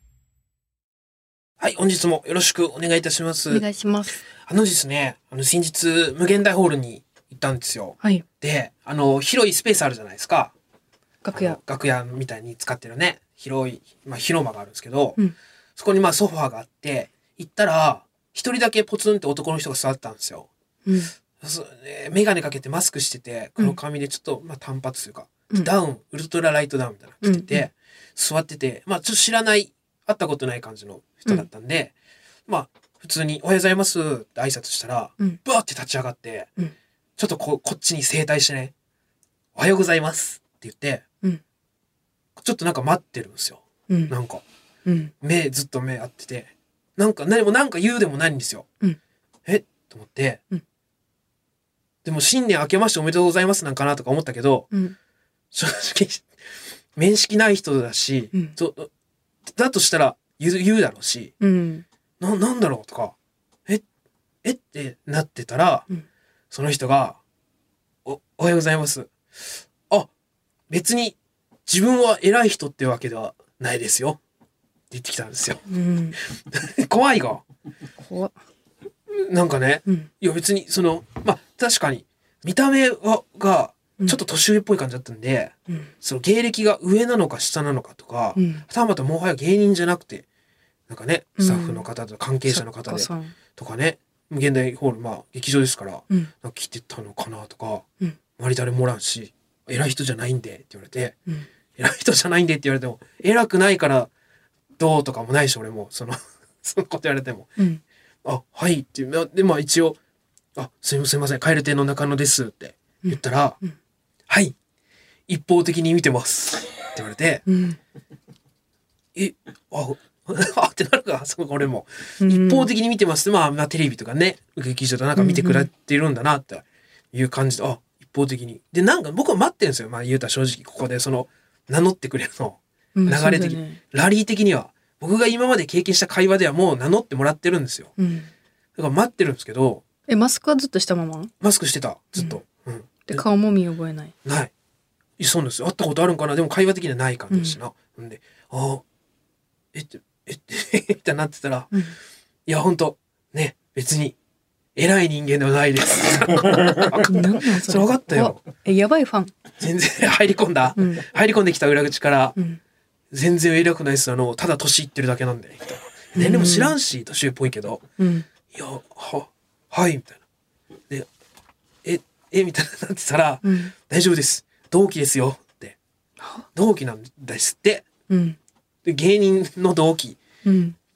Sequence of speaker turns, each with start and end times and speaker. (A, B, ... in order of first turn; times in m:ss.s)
0:01.6-0:03.6 A
0:03.5-0:04.2 B
0:04.4-0:10.5 A
0:11.2-0:11.6 B
0:11.4-0:15.2 A
0:15.8-0:20.5 A
0:20.9-0:21.1 B
0:21.4-0:31.9 A
0:27.2-0:27.7 B
0:32.5-0:36.5 A
0:37.2-0:38.7 A
0:39.6-0:41.0 A
0:42.4-0:44.4 A
0:43.9-0:44.1 B
0:44.9-0:45.1 B
0:45.2-0:48.7 A
0:49.5-0:50.4 A
0:52.0-0:54.7 A
0:55.5-0:56.3 A
0:57.0-0:58.9 A
0:59.5-1:01.4 A
1:01.4-1:01.8 B
1:02.2-1:03.1 A
1:04.4-1:05.9 A
1:06.5-1:07.2 A
1:08.0-1:09.1 A
1:10.7-1:11.2 A
1:11.7-1:14.2 A
1:14.9-1:15.7 A
1:15.7-1:16.2 B
1:16.3-1:17.4 A
1:18.0-1:18.4 B
1:19.1-1:30.3 A
1:28.4-1:28.6 B
1:30.9-1:41.2 A
1:31.4-1:31.8 B
1:32.5-1:33.4 B
1:41.8-1:44.1 A
1:44.8-1:47.6 A
1:48.2-1:50.0 A
1:50.6-1:53.6 A
1:53.0-1:53.7 B
1:54.3-1:54.6 A
1:55.3-1:57.4 A
1:57.5-1:57.8 B
1:59.2-2:17.9 A
2:02.2-2:02.7 B
2:05.2-2:05.7 B
2:13.0-2:13.8 B
2:18.0-2:18.3 B
2:18.8-2:19.8 A
2:20.1-2:21.3 B
2:21.4-2:23.2 A
2:23.1-2:24.1 B
2:24.2-2:24.5 A
2:25.2-2:28.8 A
2:27.3-2:27.6 B
2:29.7-2:31.7 A
2:32.5-2:34.2 A
2:34.8-2:38.4 A
2:37.1-2:39.3 B
2:39.6-2:42.4 A
2:40.8-2:41.0 B
2:43.1-2:47.9 A
2:46.2-2:46.8 B
2:48.0-2:48.3 B
2:48.5-2:50.2 A
2:51.8-2:55.8 A
2:53.4-2:53.7 B
2:56.2-2:56.4 B
2:56.5-2:57.9 A
2:58.1-2:58.4 B
2:58.8-3:00.2 A
3:00.4-3:00.8 B